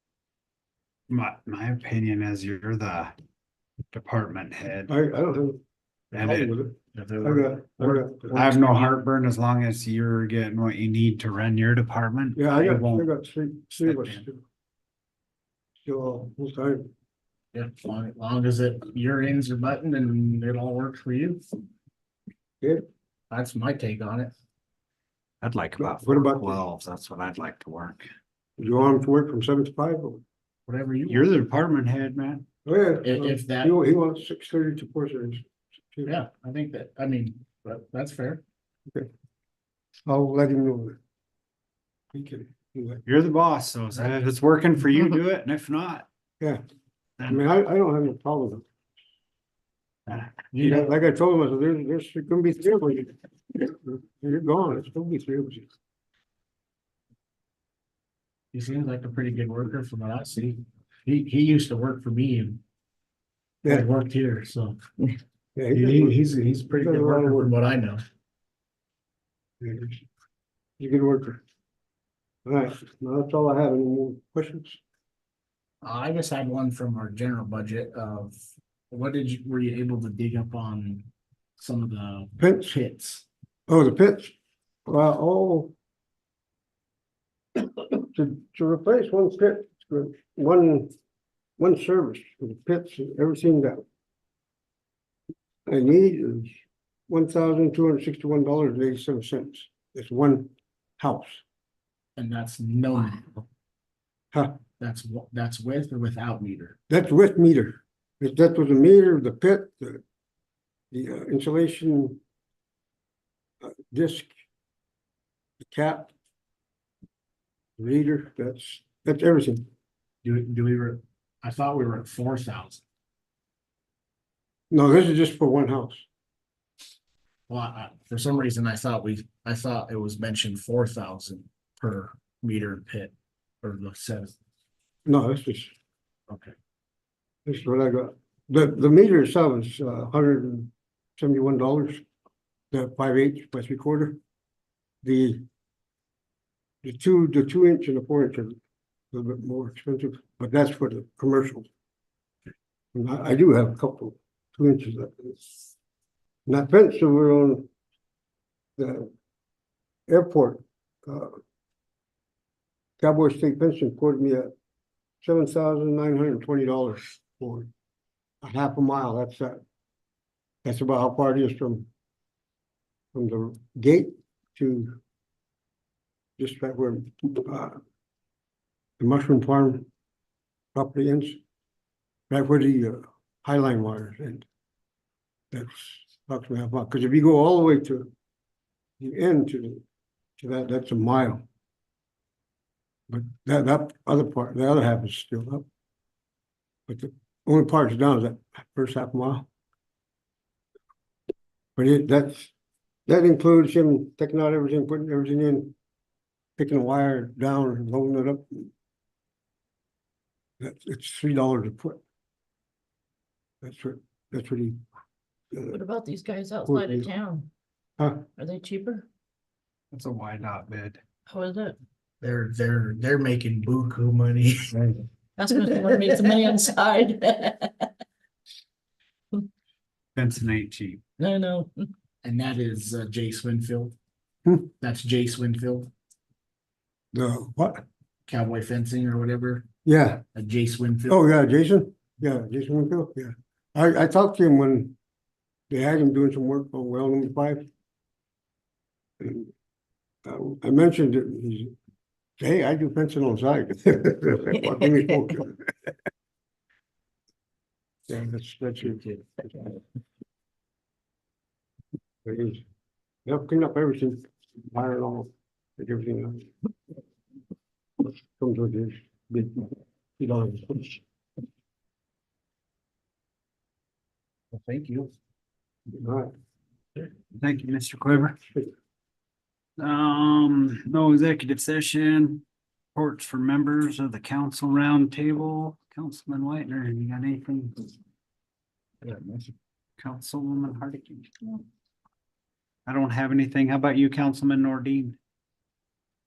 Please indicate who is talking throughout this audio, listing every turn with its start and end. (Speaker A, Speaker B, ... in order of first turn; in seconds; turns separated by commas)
Speaker A: 1.1-3.1, Speaker A: 3.9-4.9, Speaker B: 4.9-5.6, Speaker B: 6.1-8.6, Speaker A: 6.1-6.5, Speaker C: 6.9-8.9, Speaker A: 8.3-13.1, Speaker B: 12.3-14.4, Speaker A: 13.8-14.2, Speaker B: 15.8-16.9, Speaker C: 17.5-21.4, Speaker C: 23.3-24.3, Speaker A: 25.4-28.1, Speaker B: 25.8-26.6, Speaker B: 28.6-30.2, Speaker C: 30.7-31.3, Speaker A: 31.1-32.4, Speaker B: 32.6-36.1, Speaker C: 33.0-33.8, Speaker C: 36.0-38.4, Speaker B: 40.0-41.0, Speaker B: 42.1-43.0, Speaker A: 43.0-46.1, Speaker B: 47.3-48.6, Speaker A: 50.1-50.4, Speaker C: 50.5-50.9, Speaker B: 50.5-55.7, Speaker C: 58.5-62.6, Speaker C: 63.6-64.8, Speaker B: 65.5-67.5, Speaker C: 65.7-68.0, Speaker B: 69.6-70.0, Speaker B: 70.8-71.4, Speaker B: 72.5-74.8, Speaker C: 75.8-78.4, Speaker C: 78.9-81.0, Speaker C: 81.6-83.3, Speaker B: 82.4-82.7, Speaker B: 83.7-84.3, Speaker B: 84.9-85.7, Speaker B: 87.6-90.9, Speaker B: 91.6-93.8, Speaker B: 95.7-96.5, Speaker B: 97.1-101.4, Speaker C: 102.2-103.4, Speaker B: 104.3-104.6, Speaker C: 104.8-106.8, Speaker B: 106.9-110.0, Speaker B: 110.9-112.2, Speaker B: 113.6-114.3, Speaker B: 115.6-116.1, Speaker B: 117.8-119.7, Speaker C: 120.2-122.8, Speaker B: 124.7-126.1, Speaker C: 127.5-134.3, Speaker B: 135.1-135.7, Speaker C: 136.3-136.5, Speaker B: 137.4-142.0, Speaker B: 142.7-144.2, Speaker B: 145.0-145.4, Speaker B: 146.8-148.6, Speaker B: 149.1-151.7, Speaker B: 152.9-155.7, Speaker B: 156.5-157.7, Speaker B: 158.8-159.1, Speaker B: 160.1-161.3, Speaker B: 163.0-164.5, Speaker B: 165.2-167.7, Speaker B: 168.4-169.6, Speaker B: 170.6-171.9, Speaker B: 173.1-175.0, Speaker B: 176.4-177.8, Speaker B: 179.0-179.9, Speaker B: 180.7-181.4, Speaker B: 182.3-184.5, Speaker B: 185.5-188.1, Speaker B: 189.0-189.8, Speaker B: 190.4-191.4, Speaker B: 193.1-195.6, Speaker B: 196.9-199.5, Speaker B: 201.8-202.5, Speaker B: 203.1-205.7, Speaker B: 206.6-208.7, Speaker B: 210.6-212.0, Speaker B: 213.6-214.8, Speaker B: 215.5-215.8, Speaker D: 215.7-217.5, Speaker B: 216.7-217.1, Speaker B: 218.0-218.2, Speaker D: 218.4-219.1, Speaker A: 219.9-221.0, Speaker D: 221.3-221.8, Speaker C: 222.2-224.7, Speaker A: 224.7-225.0, Speaker D: 225.4-227.9, Speaker A: 230.1-231.0, Speaker D: 231.2-231.8, Speaker C: 232.2-233.9, Speaker B: 234.4-234.7, Speaker C: 234.8-235.9, Speaker B: 237.1-237.8, Speaker C: 238.2-239.7, Speaker B: 239.8-240.2, Speaker C: 240.3-241.2, Speaker B: 241.1-244.9, Speaker B: 245.7-247.7, Speaker B: 249.2-249.5, Speaker B: 250.2-251.7, Speaker B: 252.4-255.7, Speaker B: 258.1-259.6, Speaker B: 262.2-262.6, Speaker B: 263.2-266.5, Speaker B: 268.4-271.0, Speaker C: 274.5-275.1, Speaker B: 275.9-276.3, Speaker A: 277.4-278.4, Speaker A: 279.8-282.4, Speaker A: 282.9-287.9, Speaker C: 289.0-289.5, Speaker A: 290.0-291.3, Speaker A: 292.9-295.2